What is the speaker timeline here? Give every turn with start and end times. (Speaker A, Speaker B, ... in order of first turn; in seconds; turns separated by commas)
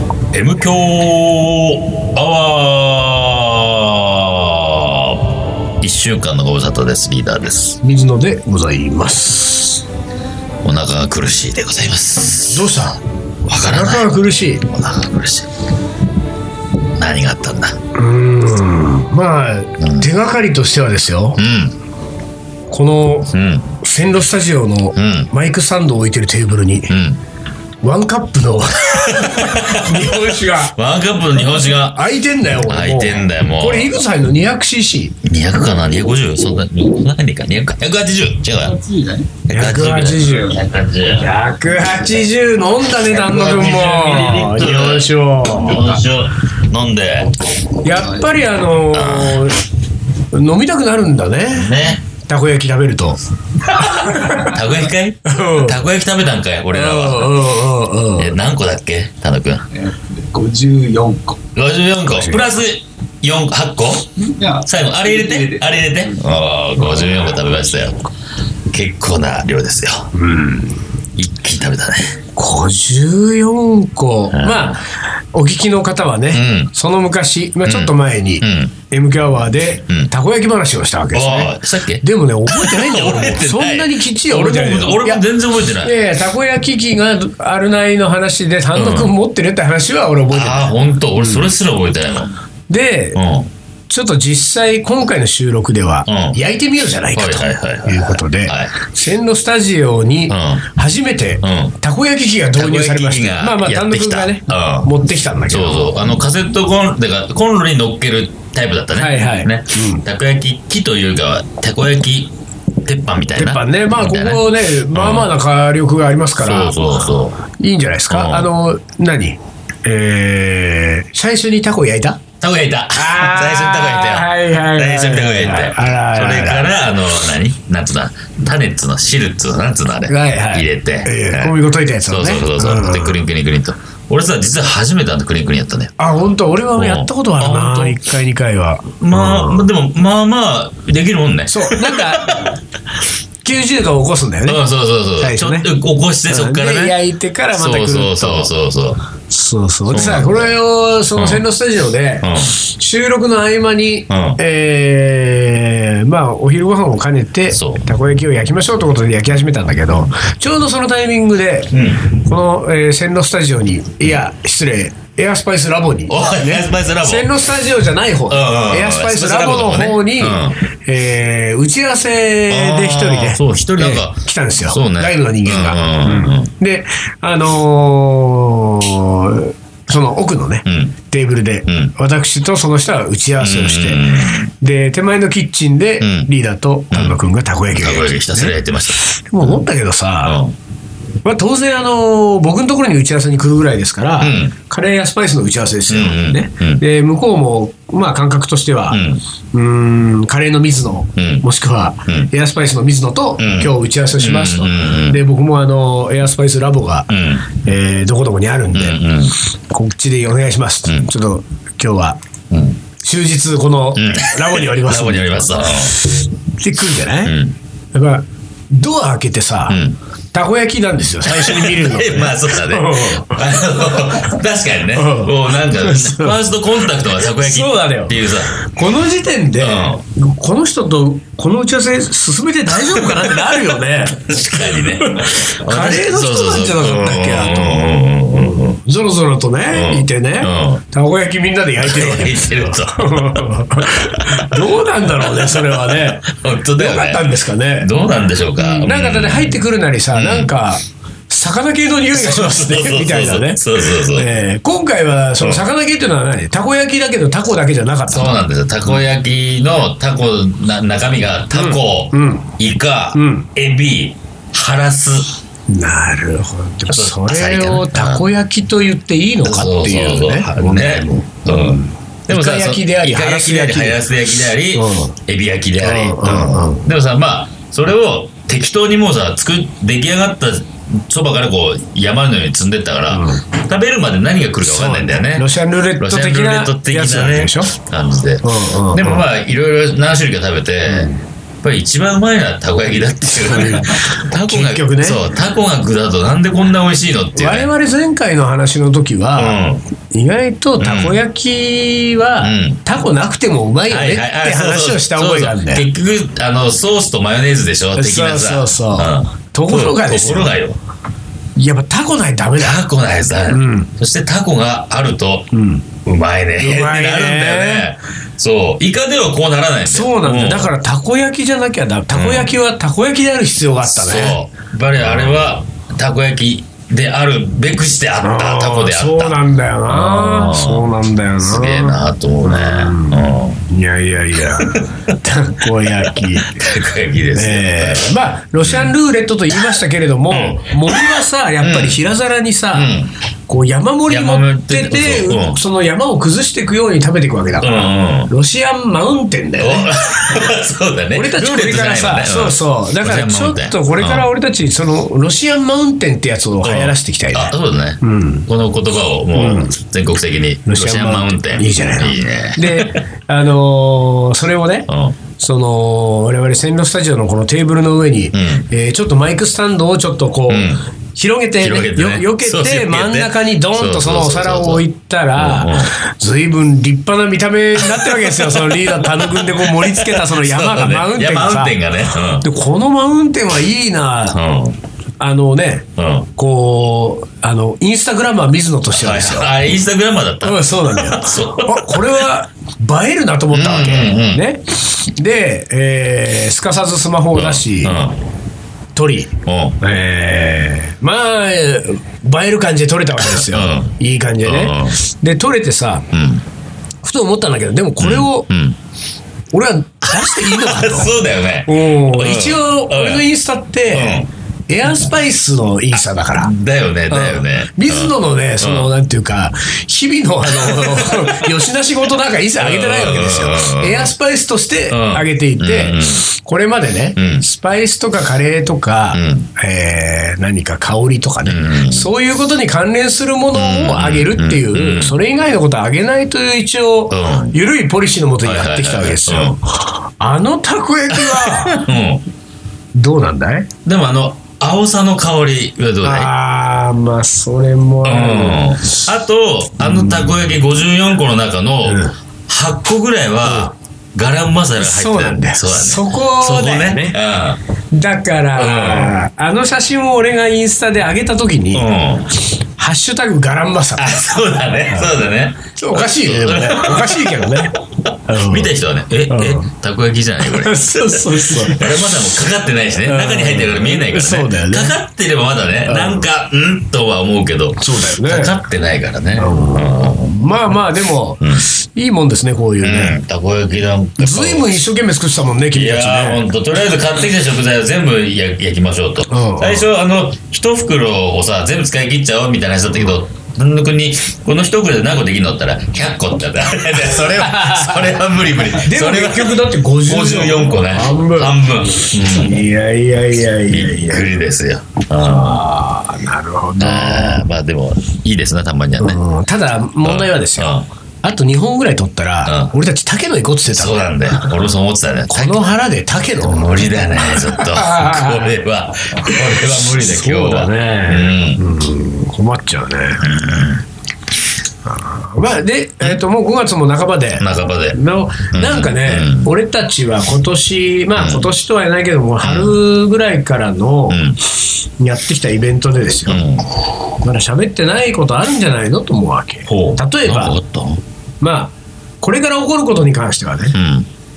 Speaker A: 0.3-5.2, Speaker A: 5.8-7.8, Speaker B: 7.8-9.8, Speaker A: 10.6-12.8, Speaker B: 12.5-13.0, Speaker A: 13.5-14.1, Speaker B: 13.6-14.7, Speaker A: 14.6-15.5, Speaker A: 16.9-17.8, Speaker B: 17.9-21.4, Speaker A: 19.8-20.1, Speaker A: 21.4-21.7, Speaker B: 22.7-26.9, Speaker A: 23.3-23.7, Speaker A: 24.9-25.3, Speaker A: 26.9-27.2, Speaker B: 27.8-30.8, Speaker A: 28.9-32.1, Speaker B: 31.9-35.1, Speaker A: 32.6-33.9, Speaker A: 35.2-38.8, Speaker C: 38.5-39.4, Speaker B: 39.5-40.5, Speaker A: 39.5-41.3, Speaker C: 40.2-41.4, Speaker B: 41.1-46.0, Speaker A: 43.1-47.3, Speaker C: 43.3-44.7, Speaker B: 47.8-49.6, Speaker C: 47.9-48.4, Speaker A: 48.9-49.5, Speaker B: 50.3-53.2, Speaker A: 51.5-52.0, Speaker A: 53.7-57.5, Speaker B: 53.8-54.5, Speaker B: 55.2-55.8, Speaker B: 56.7-58.4, Speaker A: 58.1-59.6, Speaker C: 59.7-61.4, Speaker A: 61.5-68.0, Speaker B: 62.0-62.5, Speaker C: 64.2-67.5, Speaker A: 68.7-70.1, Speaker B: 70.1-70.8, Speaker A: 71.2-72.2, Speaker B: 72.3-85.2, Speaker A: 74.3-74.8, Speaker A: 76.3-76.7, Speaker A: 77.7-78.7, Speaker A: 81.1-86.0, Speaker B: 85.8-91.5, Speaker A: 88.7-89.1, Speaker A: 90.3-92.3, Speaker B: 92.7-93.2, Speaker A: 93.2-93.5, Speaker B: 93.9-106.0, Speaker A: 96.1-96.4, Speaker A: 97.1-98.7, Speaker A: 100.3-100.6, Speaker A: 101.4-101.8, Speaker A: 102.5-104.9, Speaker A: 105.5-112.3, Speaker B: 108.9-110.0, Speaker A: 112.8-115.3, Speaker B: 113.3-116.8, Speaker A: 116.3-117.4, Speaker B: 117.5-122.2, Speaker A: 118.1-118.5, Speaker A: 122.4-135.9, Speaker B: 122.9-126.7, Speaker B: 130.1-133.2, Speaker B: 136.0-139.7, Speaker A: 136.8-138.0, Speaker A: 139.0-142.6, Speaker B: 141.5-142.5, Speaker B: 143.4-144.6, Speaker A: 144.4-147.0, Speaker B: 145.2-145.7, Speaker B: 146.3-148.5, Speaker A: 147.5-149.0, Speaker B: 149.3-190.4, Speaker A: 149.9-150.5, Speaker A: 151.2-151.4, Speaker A: 152.2-152.5, Speaker A: 154.1-154.4, Speaker A: 157.5-157.8, Speaker A: 161.7-162.1, Speaker A: 166.1-167.3, Speaker A: 168.3-170.6, Speaker A: 172.5-176.5, Speaker A: 180.7-180.9, Speaker A: 181.7-181.9, Speaker A: 183.4-184.5, Speaker A: 186.0-186.3, Speaker A: 186.9-189.7, Speaker A: 190.2-190.5, Speaker B: 191.2-209.0, Speaker A: 194.2-194.5, Speaker A: 195.9-196.8, Speaker A: 198.9-199.2, Speaker A: 201.2-201.4, Speaker A: 203.4-205.2, Speaker A: 207.1-207.5, Speaker A: 208.7-209.3, Speaker B: 209.7-212.2, Speaker A: 212.5-212.8, Speaker B: 213.0-217.3, Speaker A: 213.9-216.0, Speaker A: 217.2-217.6, Speaker B: 217.9-219.8, Speaker A: 219.7-220.0, Speaker B: 220.3-223.7, Speaker A: 221.2-228.6, Speaker B: 224.9-226.4, Speaker B: 227.3-246.2, Speaker A: 229.6-230.0, Speaker A: 232.9-233.5, Speaker A: 234.3-238.8, Speaker A: 239.7-240.8, Speaker A: 241.8-244.6, Speaker A: 245.2-250.5, Speaker B: 246.8-247.9, Speaker B: 248.6-259.0, Speaker A: 252.1-254.3, Speaker A: 255.4-255.7, Speaker A: 258.1-265.3, Speaker B: 261.5-262.5, Speaker B: 263.1-263.5, Speaker B: 265.7-274.0, Speaker A: 266.9-268.3, Speaker A: 269.4-285.5, Speaker B: 274.7-275.1, Speaker B: 275.8-276.9, Speaker B: 283.1-283.4, Speaker B: 284.6-287.7, Speaker A: 286.0-291.1, Speaker B: 288.4-289.2, Speaker B: 290.9-291.2, Speaker A: 291.6-297.7, Speaker B: 293.2-295.2, Speaker B: 297.3-305.9, Speaker A: 299.4-299.8, Speaker A: 300.8-301.2, Speaker A: 302.4-302.8, Speaker A: 303.9-310.8, Speaker B: 307.9-310.6, Speaker B: 311.6-312.8, Speaker A: 312.6-315.5, Speaker B: 313.5-313.9, Speaker B: 315.5-316.0, Speaker A: 316.1-320.7, Speaker B: 316.6-317.9, Speaker B: 319.9-324.4, Speaker A: 322.1-322.6, Speaker A: 323.8-333.6, Speaker B: 328.2-336.7, Speaker A: 334.4-335.1, Speaker A: 335.9-338.9, Speaker B: 337.3-350.5, Speaker A: 340.3-342.0, Speaker A: 342.7-343.1, Speaker A: 344.1-345.6, Speaker A: 347.6-348.3, Speaker A: 349.6-354.3, Speaker B: 351.1-358.5, Speaker A: 356.6-363.0, Speaker B: 359.3-359.8, Speaker B: 360.6-384.4, Speaker A: 364.9-365.2, Speaker A: 368.3-368.6, Speaker A: 370.5-370.8, Speaker A: 371.6-374.8, Speaker A: 375.4-375.9, Speaker A: 377.8-382.5, Speaker A: 384.3-384.8, Speaker B: 385.2-389.5, Speaker A: 386.0-386.3, Speaker A: 388.9-392.2, Speaker B: 390.4-398.0, Speaker A: 393.5-394.4, Speaker A: 397.3-398.2, Speaker B: 398.9-406.1, Speaker A: 399.4-399.8, Speaker A: 403.2-405.0, Speaker A: 406.1-406.4, Speaker B: 407.0-408.5, Speaker A: 408.0-408.8, Speaker B: 409.5-416.5, Speaker A: 410.0-413.3, Speaker A: 413.9-414.3, Speaker A: 416.4-418.9, Speaker B: 417.1-441.9, Speaker A: 420.4-421.5, Speaker A: 422.6-424.1, Speaker A: 424.9-426.2, Speaker A: 427.1-427.4, Speaker A: 429.1-429.5, Speaker A: 431.4-432.1, Speaker A: 433.5-435.2, Speaker A: 437.1-437.6, Speaker A: 438.4-439.6, Speaker A: 441.1-442.2, Speaker B: 442.9-443.7, Speaker A: 443.8-446.3, Speaker B: 446.0-449.0, Speaker A: 448.0-457.6, Speaker B: 449.8-450.6, Speaker B: 451.8-452.1, Speaker B: 453.4-453.7, Speaker B: 454.8-457.2, Speaker B: 457.9-461.9, Speaker A: 458.6-459.2, Speaker A: 461.7-462.3, Speaker B: 462.8-464.2, Speaker A: 464.0-467.7, Speaker B: 465.8-468.7, Speaker A: 468.3-480.3, Speaker B: 469.3-469.7, Speaker B: 470.4-472.1, Speaker B: 473.0-474.9, Speaker B: 475.8-476.2, Speaker B: 477.8-478.5, Speaker B: 479.4-483.2, Speaker A: 481.4-481.6, Speaker A: 482.8-484.8, Speaker B: 484.2-486.5, Speaker A: 485.7-502.6, Speaker B: 489.3-489.9, Speaker B: 497.0-498.1, Speaker B: 498.8-504.3, Speaker A: 503.7-505.6, Speaker B: 505.2-507.4, Speaker A: 506.8-509.2, Speaker B: 509.0-514.0, Speaker A: 510.0-510.9, Speaker A: 512.4-512.7, Speaker A: 513.7-515.7, Speaker B: 515.3-518.5, Speaker A: 516.4-521.6, Speaker B: 519.2-523.3, Speaker A: 523.2-523.8, Speaker B: 524.9-534.2, Speaker A: 527.4-528.0, Speaker A: 528.5-529.5, Speaker A: 531.1-531.5, Speaker A: 532.4-532.8, Speaker A: 534.1-534.4, Speaker B: 535.0-536.4, Speaker A: 536.2-536.6, Speaker B: 537.2-540.6, Speaker A: 539.7-541.0, Speaker B: 541.4-543.8, Speaker A: 543.7-544.1